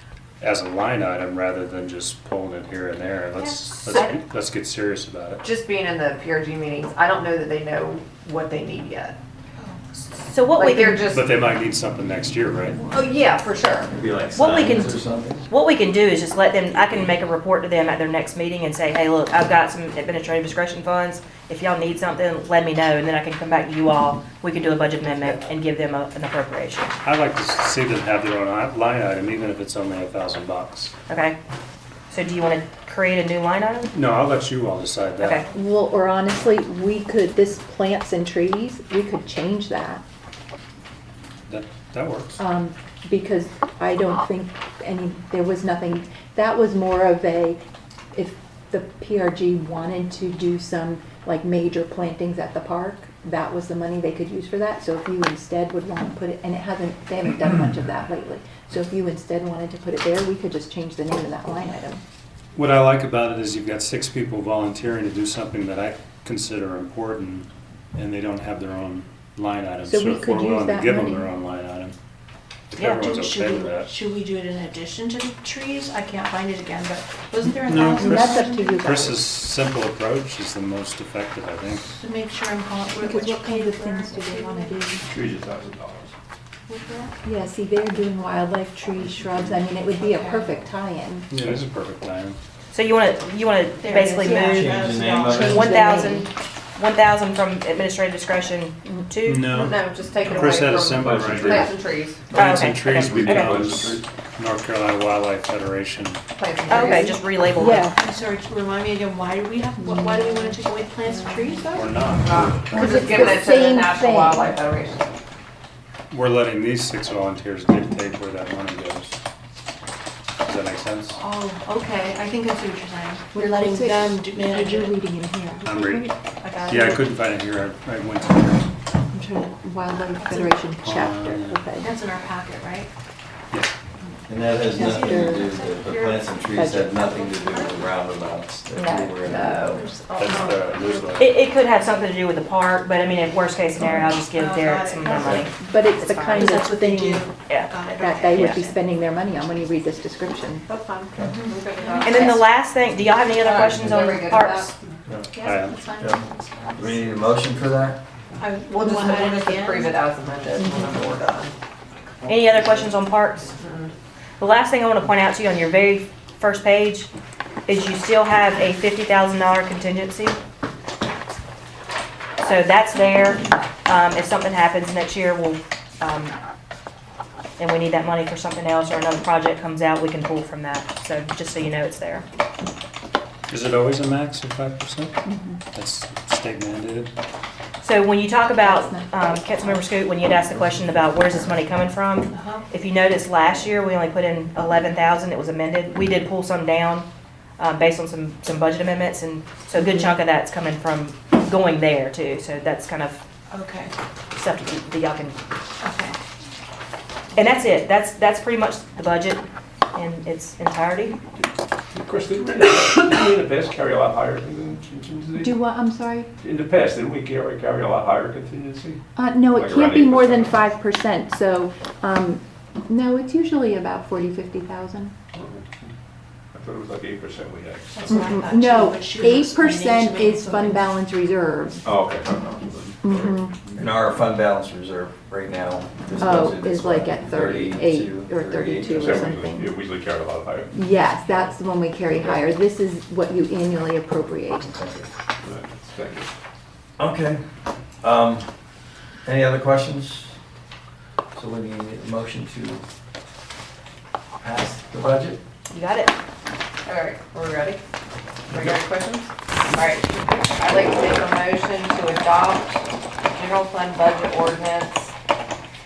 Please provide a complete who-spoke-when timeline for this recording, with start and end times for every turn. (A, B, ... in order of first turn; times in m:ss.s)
0:00.4-0:05.4 A
0:03.4-0:04.1 B
0:05.4-0:09.2 C
0:09.6-0:10.0 D
0:10.2-0:11.0 B
0:10.6-0:11.3 C
0:11.1-0:12.8 A
0:12.9-0:13.9 C
0:13.9-0:15.4 E
0:14.3-0:26.9 B
0:25.1-0:25.5 A
0:27.0-0:30.9 A
0:31.1-0:31.4 B
0:32.1-0:33.9 B
0:33.9-0:35.5 A
0:35.2-0:35.5 B
0:35.5-0:40.0 F
0:41.5-0:42.4 A
0:42.4-1:02.0 F
1:02.5-1:11.9 A
1:09.8-1:11.3 F
1:12.7-1:13.9 A
1:12.9-1:19.0 D
1:17.6-1:21.9 A
1:17.8-1:19.2 F
1:21.9-1:24.8 D
1:23.0-1:25.1 F
1:25.0-1:26.1 G
1:26.7-1:27.1 D
1:27.2-1:31.3 F
1:29.9-1:30.6 D
1:31.3-1:32.4 A
1:32.7-1:34.6 B
1:33.8-1:35.8 D
1:34.2-1:36.3 F
1:34.3-1:35.6 E
1:35.4-1:39.5 B
1:38.8-1:39.1 F
1:39.2-1:41.8 A
1:39.5-1:42.2 C
1:41.0-1:41.7 E
1:42.3-1:46.2 A
1:42.3-1:43.5 B
1:43.1-1:43.5 G
1:43.6-1:44.0 E
1:46.4-1:47.2 C
1:46.7-1:47.9 B
1:46.8-1:48.0 F
1:47.9-1:52.0 D
1:49.8-1:51.6 F
1:51.7-1:53.1 A
1:52.2-1:55.1 C
1:52.7-1:54.6 F
1:56.1-1:59.2 A
2:00.4-2:01.2 A
2:01.1-2:05.0 D
2:03.3-2:05.7 F
2:05.6-2:07.1 D
2:05.6-2:08.7 A
2:09.1-2:11.9 F
2:10.1-2:10.6 D
2:10.8-2:11.6 A
2:11.8-2:12.9 D
2:14.3-2:19.8 E
2:14.5-2:17.9 D
2:14.8-2:15.5 F
2:16.5-2:17.1 F
2:18.7-2:19.8 F
2:19.3-2:21.2 D
2:19.4-2:19.8 C
2:20.2-2:21.4 A
2:21.2-2:26.5 B
2:23.9-2:25.4 D
2:25.6-2:27.3 F
2:26.3-2:28.8 D
2:28.0-2:30.7 F
2:28.3-2:28.6 B
2:30.7-2:32.3 D
2:31.4-2:32.4 C
2:32.0-2:34.7 B
2:32.1-2:32.4 F
2:33.4-2:34.7 C
2:35.3-2:37.3 D
2:35.4-2:35.8 A
2:35.9-2:36.2 E
2:36.8-2:38.0 E
2:38.4-2:40.0 D
2:38.7-2:41.5 C
2:40.6-2:40.9 F
2:42.2-2:43.6 B
2:43.6-2:43.9 C
2:44.4-2:47.1 B
2:47.7-2:50.4 B
2:52.4-2:56.4 B
2:57.6-3:02.2 B
3:03.5-3:05.2 A
3:05.2-3:05.6 F
3:05.7-3:07.1 A
3:07.8-3:17.1 B
3:08.5-3:09.7 F
3:12.3-3:12.7 D
3:17.6-3:23.2 B
3:19.8-3:20.1 F
3:23.5-3:23.9 D
3:24.3-3:25.4 B
3:25.8-3:26.2 D
3:27.4-3:31.2 B
3:31.9-3:35.6 G
3:35.4-3:36.3 F
3:36.4-3:40.7 G
3:39.2-3:45.1 F
3:45.3-3:45.9 G
3:46.5-3:48.1 G
3:47.9-3:50.9 D
3:48.1-3:51.8 F
3:51.8-3:54.0 G
3:53.0-3:53.6 F
3:53.8-3:59.1 E
3:56.2-3:59.8 F
3:58.9-4:00.9 G
4:00.7-4:04.7 F
4:04.6-4:05.1 E
4:05.4-4:06.3 G
4:07.0-4:07.4 E
4:08.0-4:08.5 E
4:09.2-4:10.4 E
4:11.3-4:12.8 E
4:14.4-4:15.4 E
4:15.7-4:16.1 B
4:16.8-4:17.8 C
4:18.5-4:25.1 C